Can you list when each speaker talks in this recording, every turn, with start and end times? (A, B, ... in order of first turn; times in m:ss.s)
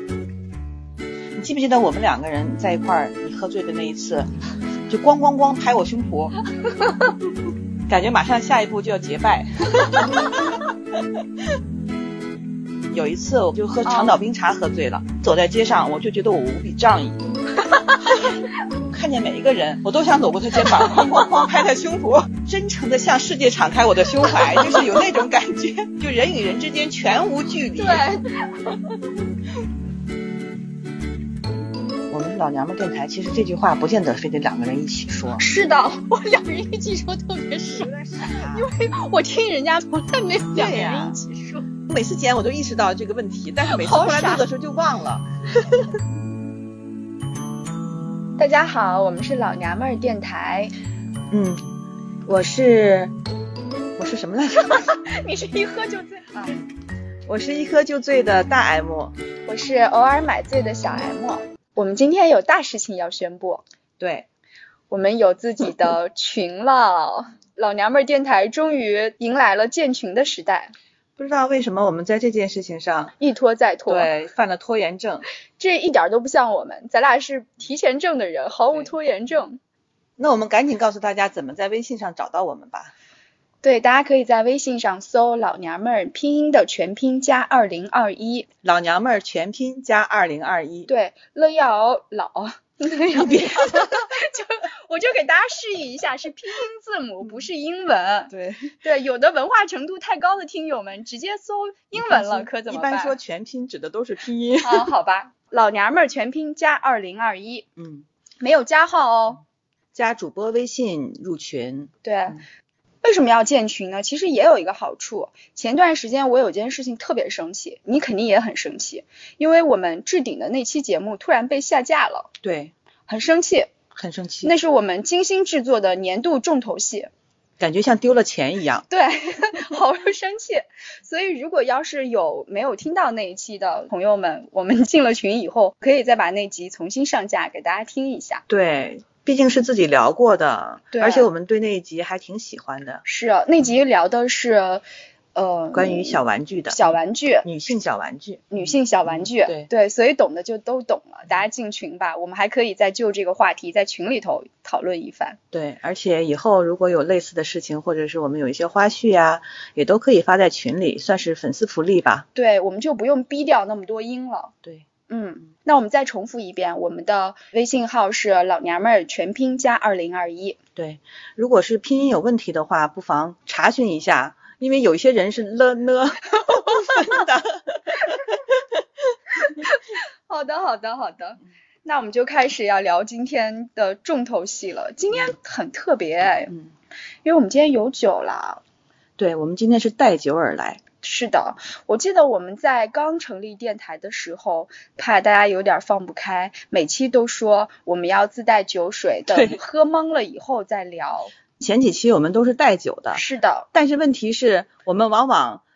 0:01.4-0:04.3 A
0:04.9-0:06.4 A
0:07.9-0:10.6 A
0:12.9-0:17.2 A
0:13.8-0:14.2 B
0:17.6-0:18.3 B
0:18.2-0:28.1 A
0:20.6-0:21.1 B
0:24.3-0:24.7 B
0:27.7-0:28.8 B
0:32.1-0:35.4 A
0:35.4-0:41.7 B
0:37.7-0:38.7 A
0:40.5-0:41.2 A
0:41.8-0:45.2 A
0:43.6-0:44.4 B
0:48.4-0:50.7 B
0:51.3-0:51.6 A
0:52.2-0:53.1 A
0:54.0-0:54.8 A
0:54.5-0:56.6 B
0:57.2-0:59.1 A
0:59.4-1:03.6 B
1:04.0-1:04.3 A
1:04.9-1:10.7 B
1:11.2-1:13.1 A
1:13.2-1:14.1 B
1:13.9-1:15.2 A
1:15.6-1:19.6 B
1:18.7-1:19.0 A
1:20.2-1:22.9 A
1:23.6-1:28.5 B
1:28.6-1:30.9 A
1:30.9-1:43.2 B
1:33.1-1:34.1 A
1:38.3-1:38.7 A
1:41.9-1:44.9 A
1:44.6-1:47.7 B
1:47.8-1:48.0 A
1:48.4-1:49.4 B
1:49.9-1:52.3 A
1:52.0-1:52.4 B
1:53.0-2:02.3 B
2:02.4-2:02.7 A
2:03.1-2:03.7 B
2:03.9-2:04.5 A
2:04.4-2:07.1 B
2:07.6-2:08.8 A
2:08.9-2:18.4 B
2:18.5-2:23.0 A
2:20.9-2:21.3 B
2:23.0-2:24.8 B
2:25.3-2:27.5 B
2:25.7-2:29.7 A
2:28.5-2:35.4 B
2:35.5-2:42.2 A
2:42.3-2:44.5 B
2:45.1-2:50.6 B
2:50.8-2:58.6 A
2:56.4-2:57.2 B
2:59.4-3:06.5 B
3:07.2-3:08.6 B
3:09.2-3:10.8 A
3:11.0-3:21.3 B
3:19.3-3:19.6 A
3:21.6-3:23.2 A
3:23.1-3:23.7 B
3:23.7-3:25.6 A